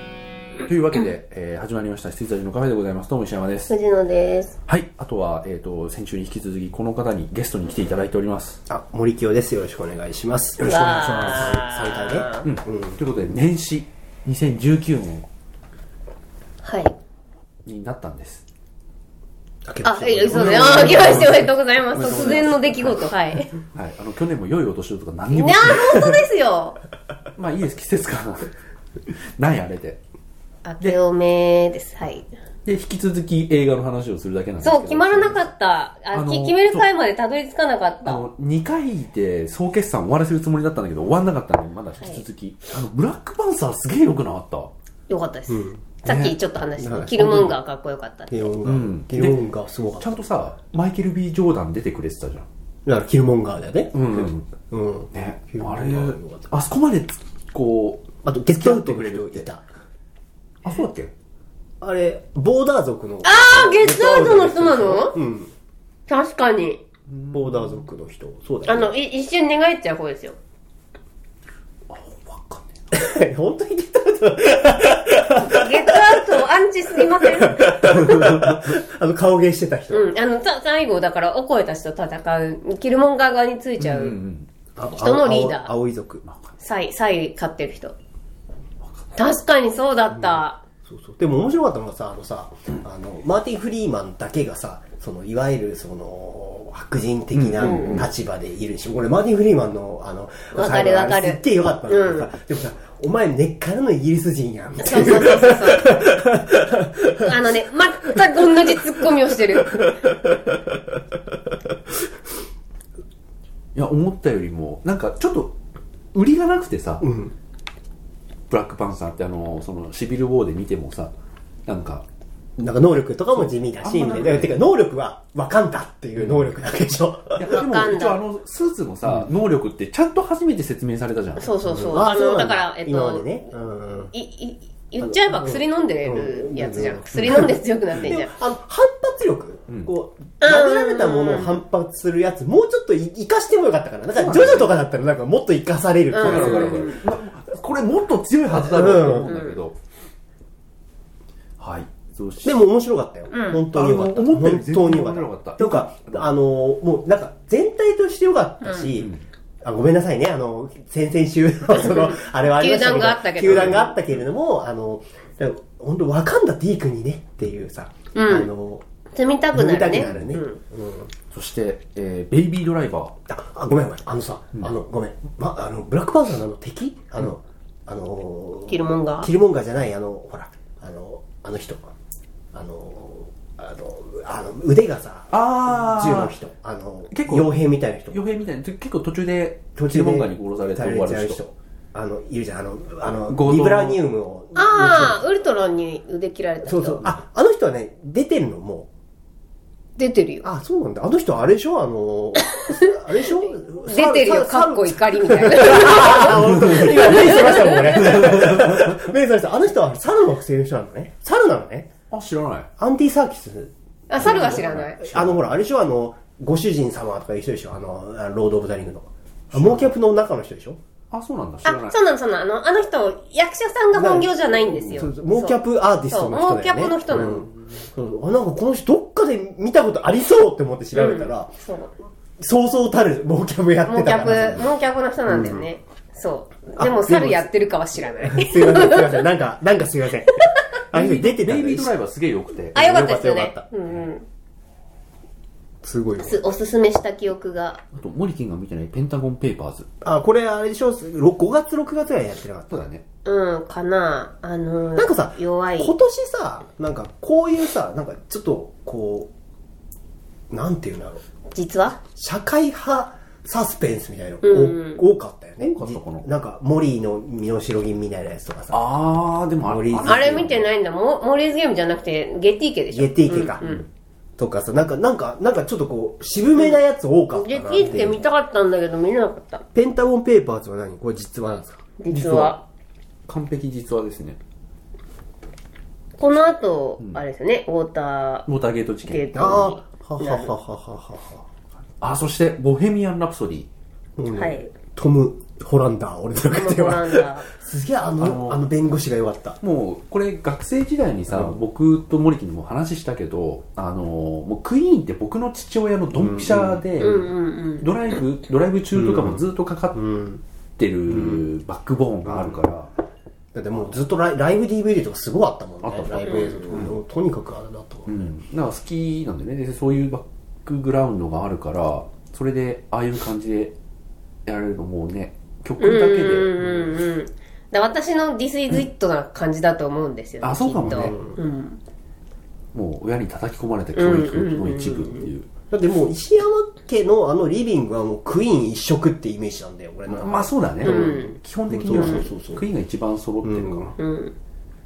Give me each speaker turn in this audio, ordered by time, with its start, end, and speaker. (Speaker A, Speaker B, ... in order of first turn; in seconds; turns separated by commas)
Speaker A: 0.6-3.7, Speaker B: 3.7-4.6, Speaker A: 4.7-8.6, Speaker C: 8.7-13.0, Speaker B: 10.6-12.5, Speaker A: 12.4-15.3, Speaker B: 16.6-17.0, Speaker A: 17.6-18.4, Speaker C: 19.7-21.5, Speaker B: 19.8-23.5, Speaker A: 20.3-23.1, Speaker A: 23.7-26.2, Speaker B: 25.3-26.8, Speaker A: 27.4-28.5, Speaker A: 29.1-30.0, Speaker B: 30.6-32.3, Speaker A: 32.6-35.5, Speaker B: 34.6-38.2, Speaker A: 36.1-36.9, Speaker A: 38.0-44.7, Speaker B: 45.1-48.5, Speaker C: 45.5-46.0, Speaker A: 46.0-46.4, Speaker C: 46.8-47.6, Speaker C: 48.3-50.2, Speaker A: 48.6-49.4, Speaker A: 50.0-52.5, Speaker C: 52.9-56.5, Speaker A: 53.9-54.5, Speaker A: 55.1-59.5, Speaker C: 58.2-59.6, Speaker A: 60.6-61.1, Speaker C: 61.8-65.5, Speaker B: 63.2-65.2, Speaker B: 66.1-66.8, Speaker A: 67.1-67.8, Speaker C: 67.3-68.9, Speaker B: 68.7-70.4, Speaker A: 71.9-72.7, Speaker C: 72.9-76.2, Speaker B: 75.3-77.8, Speaker C: 77.2-80.1, Speaker A: 78.0-78.6, Speaker B: 79.9-84.2, Speaker A: 83.8-84.5, Speaker C: 84.8-86.2, Speaker B: 85.0-85.7, Speaker A: 86.2-86.5, Speaker B: 86.6-87.9, Speaker B: 89.2-90.6, Speaker C: 90.2-107.4, Speaker A: 97.4-98.0, Speaker B: 97.6-98.0, Speaker B: 100.5-102.3, Speaker B: 104.8-106.0, Speaker B: 107.2-109.9, Speaker A: 113.8-115.5, Speaker A: 116.1-117.1, Speaker C: 117.0-117.3, Speaker A: 118.5-121.1, Speaker A: 121.7-122.0, Speaker C: 122.6-127.6, Speaker A: 123.3-124.5, Speaker A: 127.4-131.5, Speaker B: 127.5-128.2, Speaker B: 131.4-133.5, Speaker C: 131.6-134.1, Speaker B: 134.1-138.3, Speaker C: 135.0-147.0, Speaker A: 137.2-138.2, Speaker B: 140.4-141.6, Speaker A: 144.1-144.8, Speaker B: 146.1-147.0, Speaker A: 146.2-149.8, Speaker C: 148.5-149.4, Speaker B: 149.2-149.6, Speaker A: 151.6-152.6, Speaker C: 152.4-168.8, Speaker B: 153.3-153.6, Speaker A: 153.7-156.2, Speaker B: 158.7-158.9, Speaker A: 159.0-159.2, Speaker B: 161.8-163.9, Speaker A: 163.5-164.0, Speaker B: 168.2-168.5, Speaker B: 169.1-170.6, Speaker C: 169.5-171.1, Speaker A: 170.0-170.3, Speaker A: 171.3-173.2, Speaker C: 173.3-181.9, Speaker B: 178.7-179.3, Speaker C: 182.5-188.2, Speaker A: 185.3-186.3, Speaker A: 187.1-191.4, Speaker C: 189.8-195.2, Speaker A: 193.2-194.0, Speaker B: 194.6-197.0, Speaker C: 196.6-198.9, Speaker B: 200.0-200.5, Speaker C: 200.4-211.9, Speaker B: 202.4-208.1, Speaker A: 206.5-209.0, Speaker A: 212.1-212.7, Speaker C: 212.8-220.8, Speaker B: 214.1-215.0, Speaker A: 214.2-215.4, Speaker A: 219.5-219.9, Speaker A: 221.1-222.0, Speaker B: 221.6-225.6, Speaker C: 223.9-231.5, Speaker B: 226.1-227.5, Speaker B: 230.9-231.9, Speaker C: 232.4-234.7, Speaker B: 233.9-239.2, Speaker C: 235.3-235.7, Speaker C: 236.8-237.5, Speaker C: 238.2-241.9, Speaker A: 240.9-243.5, Speaker B: 242.7-244.2, Speaker C: 242.8-243.7, Speaker C: 245.8-246.4, Speaker B: 246.2-247.8, Speaker A: 247.9-249.9, Speaker C: 250.0-252.8, Speaker A: 252.7-253.0, Speaker B: 253.2-255.9, Speaker C: 254.9-259.3, Speaker C: 260.5-261.2, Speaker B: 261.5-262.0, Speaker C: 262.0-268.9, Speaker B: 264.4-265.0, Speaker A: 265.6-266.3, Speaker A: 268.7-270.6, Speaker C: 269.6-270.6, Speaker B: 270.0-273.8, Speaker C: 272.9-273.7, Speaker C: 274.4-278.2, Speaker B: 277.3-279.7, Speaker C: 279.7-282.5, Speaker B: 282.0-282.6, Speaker A: 282.2-282.5, Speaker A: 283.3-284.4, Speaker B: 286.2-288.4, Speaker A: 288.5-289.7, Speaker B: 289.1-290.5, Speaker C: 289.4-291.4, Speaker A: 292.0-293.7, Speaker C: 294.2-299.6, Speaker B: 294.3-294.7, Speaker B: 296.5-297.5, Speaker A: 298.2-298.6, Speaker A: 299.6-310.1, Speaker C: 301.3-301.6, Speaker C: 306.2-306.8, Speaker B: 307.0-307.9, Speaker C: 308.9-309.4, Speaker C: 309.9-310.4, Speaker A: 310.8-312.9, Speaker C: 311.1-311.4, Speaker C: 312.2-312.6, Speaker C: 313.5-318.3, Speaker A: 315.8-316.9, Speaker B: 316.2-316.6, Speaker A: 318.1-323.7, Speaker A: 324.4-327.0, Speaker B: 325.8-331.8, Speaker A: 330.4-331.2, Speaker C: 330.9-331.4, Speaker A: 332.7-335.5, Speaker B: 333.9-335.2, Speaker C: 335.7-342.6, Speaker A: 340.1-343.9, Speaker B: 340.8-341.4, Speaker B: 341.9-342.2, Speaker C: 343.4-343.9, Speaker B: 344.0-344.3